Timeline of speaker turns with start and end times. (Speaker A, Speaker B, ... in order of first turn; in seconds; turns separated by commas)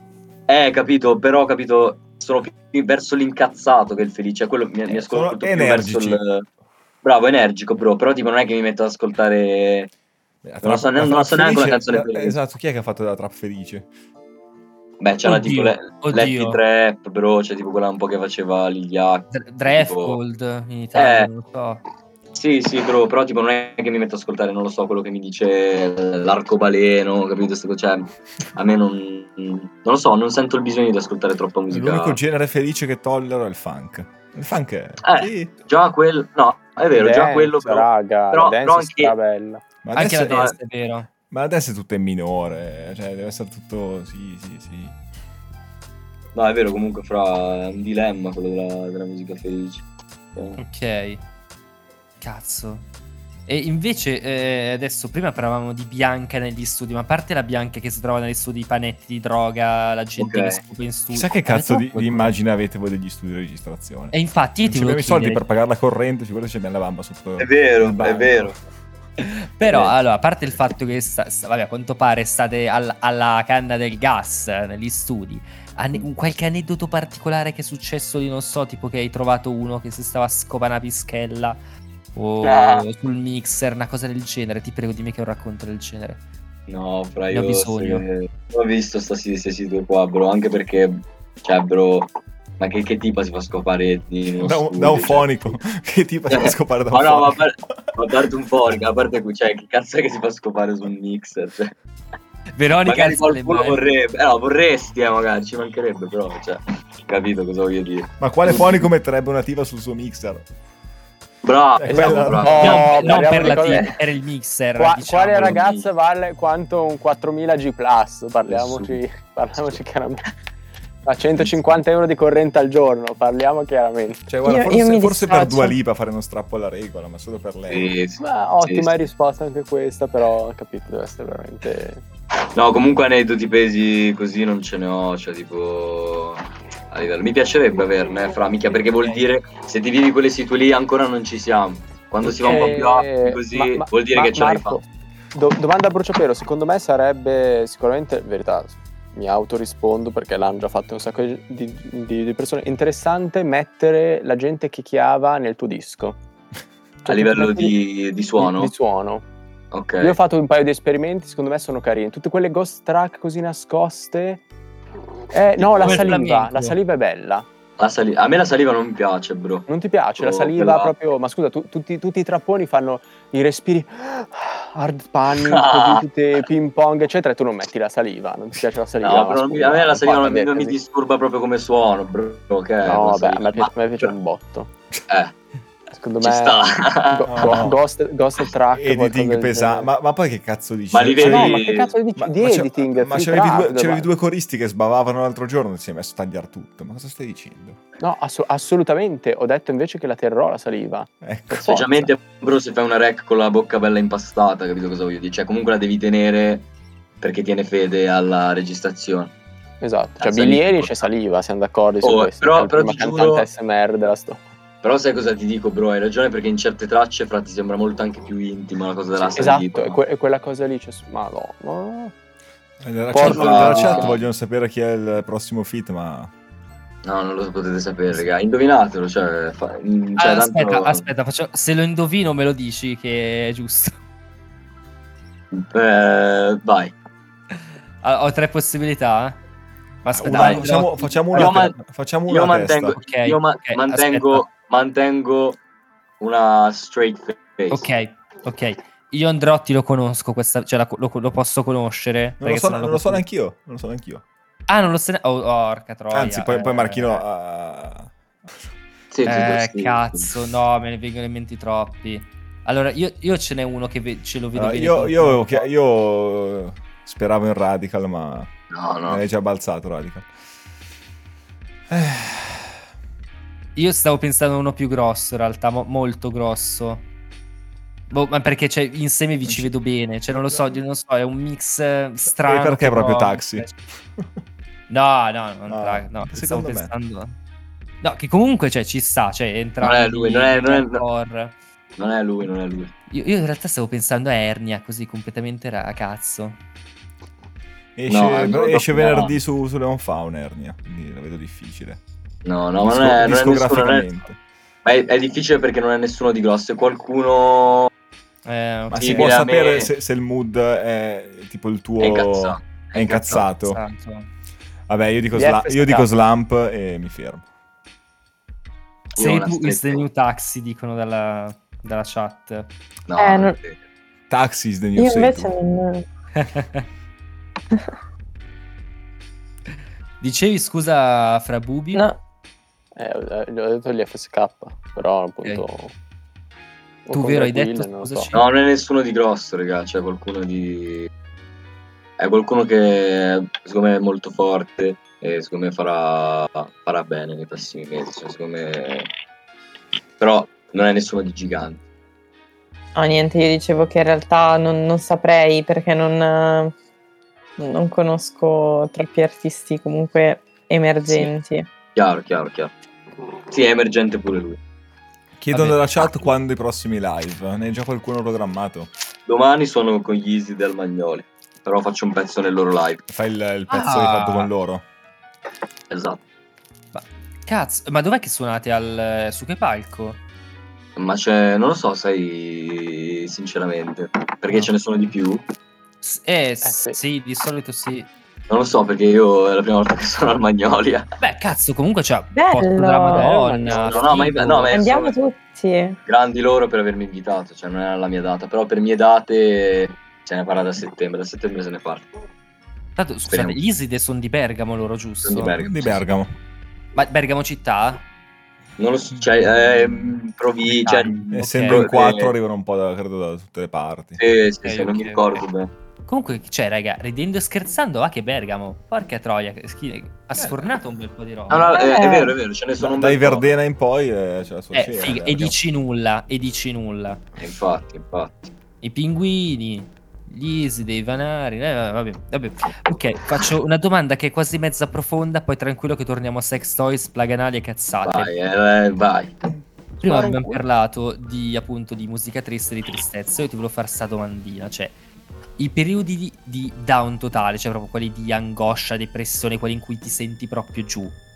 Speaker A: 0.5-6.5, Speaker B: 4.9-6.2, Speaker A: 7.0-9.9, Speaker B: 10.4-13.9, Speaker A: 10.6-12.4, Speaker A: 15.0-20.2, Speaker C: 15.2-16.6, Speaker C: 19.3-21.8, Speaker A: 20.9-21.3, Speaker A: 22.3-32.2, Speaker B: 31.7-35.5, Speaker A: 35.0-39.1, Speaker D: 36.9-39.6, Speaker B: 39.8-40.5, Speaker C: 39.9-41.1, Speaker B: 41.3-45.0, Speaker A: 46.3-49.8, Speaker C: 50.6-51.2, Speaker C: 52.2-52.9, Speaker C: 53.5-62.3, Speaker A: 60.2-60.6, Speaker B: 61.1-64.1, Speaker C: 64.1-65.4, Speaker B: 64.6-68.5, Speaker A: 67.4-68.5, Speaker C: 69.2-81.6, Speaker A: 69.6-69.9, Speaker C: 82.1-86.2, Speaker A: 82.4-82.8, Speaker A: 86.7-95.3, Speaker C: 87.3-88.0, Speaker B: 94.4-97.4, Speaker A: 96.3-101.7, Speaker C: 102.5-103.8, Speaker A: 102.8-108.9, Speaker B: 108.2-110.5, Speaker A: 111.4-113.9, Speaker B: 111.8-112.7, Speaker D: 111.9-113.9, Speaker C: 112.6-115.6, Speaker D: 114.8-120.3, Speaker A: 115.4-115.9, Speaker A: 118.5-119.0, Speaker D: 121.0-124.2, Speaker B: 124.3-127.9, Speaker E: 124.4-125.7, Speaker A: 127.7-129.1, Speaker D: 128.2-132.0, Speaker A: 132.5-144.8, Speaker D: 142.2-156.2, Speaker C: 142.4-142.8, Speaker D: 157.0-157.8, Speaker A: 157.1-158.7, Speaker D: 158.4-159.2, Speaker A: 159.7-160.2, Speaker D: 160.0-164.4, Speaker D: 165.3-167.4, Speaker A: 165.6-166.2, Speaker C: 165.8-166.8, Speaker A: 167.8-169.7, Speaker D: 169.7-180.8, Speaker A: 170.2-170.9, Speaker A: 175.4-176.0, Speaker A: 179.0-184.1, Speaker D: 182.8-184.7, Speaker A: 185.1-185.3, Speaker D: 185.9-189.9, Speaker A: 186.2-187.6, Speaker B: 187.3-187.8, Speaker B: 188.7-191.6, Speaker A: 190.9-191.9, Speaker D: 191.2-194.1, Speaker B: 192.2-197.8, Speaker D: 198.0-201.9, Speaker B: 201.2-201.8, Speaker A: 201.6-206.7, Speaker A: 207.2-209.3, Speaker D: 209.8-214.4, Speaker A: 210.2-211.1, Speaker A: 212.0-213.5, Speaker A: 214.8-220.0, Speaker D: 219.3-222.1, Speaker B: 222.8-226.3, Speaker D: 223.1-224.0, Speaker C: 223.2-224.1, Speaker A: 223.2-224.2, Speaker A: 227.0-231.1, Speaker C: 230.2-233.9, Speaker A: 235.5-236.9, Speaker C: 238.0-239.4, Speaker C: 240.0-241.7, Speaker B: 240.1-243.0, Speaker A: 240.3-240.7, Speaker A: 241.3-241.8, Speaker A: 242.3-245.6, Speaker C: 242.9-244.4, Speaker A: 246.2-247.9, Speaker C: 247.7-253.2, Speaker B: 252.4-254.2, Speaker C: 254.7-257.2, Speaker B: 256.1-258.1, Speaker A: 259.1-260.3, Speaker C: 259.2-265.7, Speaker B: 264.5-268.5, Speaker A: 268.7-269.2, Speaker B: 269.1-270.3, Speaker B: 271.9-272.7, Speaker C: 273.8-277.0, Speaker C: 278.1-283.7, Speaker B: 279.4-279.7, Speaker B: 280.3-280.7, Speaker B: 282.3-283.7, Speaker C: 284.9-287.3, Speaker B: 285.7-286.9, Speaker C: 288.0-291.5, Speaker A: 289.8-291.0, Speaker A: 292.0-292.9, Speaker C: 293.1-296.6, Speaker B: 297.9-302.0, Speaker A: 298.1-299.3, Speaker A: 302.4-304.1, Speaker B: 302.8-304.4, Speaker A: 304.8-307.9, Speaker C: 308.4-309.4, Speaker B: 308.9-313.8, Speaker A: 309.0-309.9, Speaker A: 312.0-313.5, Speaker C: 313.2-314.3, Speaker B: 314.9-317.4, Speaker D: 315.3-316.1, Speaker A: 319.1-320.1, Speaker C: 319.2-322.7, Speaker A: 323.1-323.8, Speaker E: 323.2-323.6, Speaker B: 324.3-325.5, Speaker E: 325.0-326.0, Speaker C: 326.4-326.8, Speaker C: 330.2-332.0, Speaker D: 332.9-335.9, Speaker D: 337.1-338.3, Speaker C: 337.1-338.4, Speaker A: 338.3-341.1, Speaker A: 342.2-349.1, Speaker A: 350.2-351.8, Speaker E: 352.9-356.7, Speaker E: 357.6-361.6, Speaker A: 361.9-362.7, Speaker A: 363.5-364.6, Speaker B: 365.4-368.9, Speaker C: 365.5-366.2, Speaker A: 369.3-373.0, Speaker B: 373.1-374.8, Speaker C: 373.7-374.5, Speaker A: 375.9-376.2, Speaker C: 376.9-380.2, Speaker A: 380.9-385.4, Speaker C: 386.0-388.1, Speaker D: 386.6-387.0, Speaker A: 388.5-391.1, Speaker C: 391.2-394.8, Speaker E: 392.3-393.3, Speaker D: 393.1-394.7, Speaker A: 393.7-395.1, Speaker E: 394.7-396.0, Speaker A: 396.1-402.1, Speaker C: 402.9-405.6, Speaker A: 403.3-403.6, Speaker A: 405.2-406.0, Speaker B: 405.5-406.3, Speaker C: 406.9-408.0, Speaker A: 408.8-412.3, Speaker C: 410.7-411.9, Speaker B: 411.3-414.2, Speaker A: 414.2-415.7, Speaker C: 414.6-415.4, Speaker C: 416.1-421.8, Speaker B: 420.4-420.7, Speaker A: 421.5-423.5, Speaker E: 421.7-422.3, Speaker B: 422.8-425.5, Speaker C: 424.7-427.2, Speaker A: 427.4-428.5, Speaker C: 428.8-438.3, Speaker A: 438.0-439.3, Speaker C: 440.0-444.9, Speaker A: 440.1-440.6, Speaker C: 445.6-451.1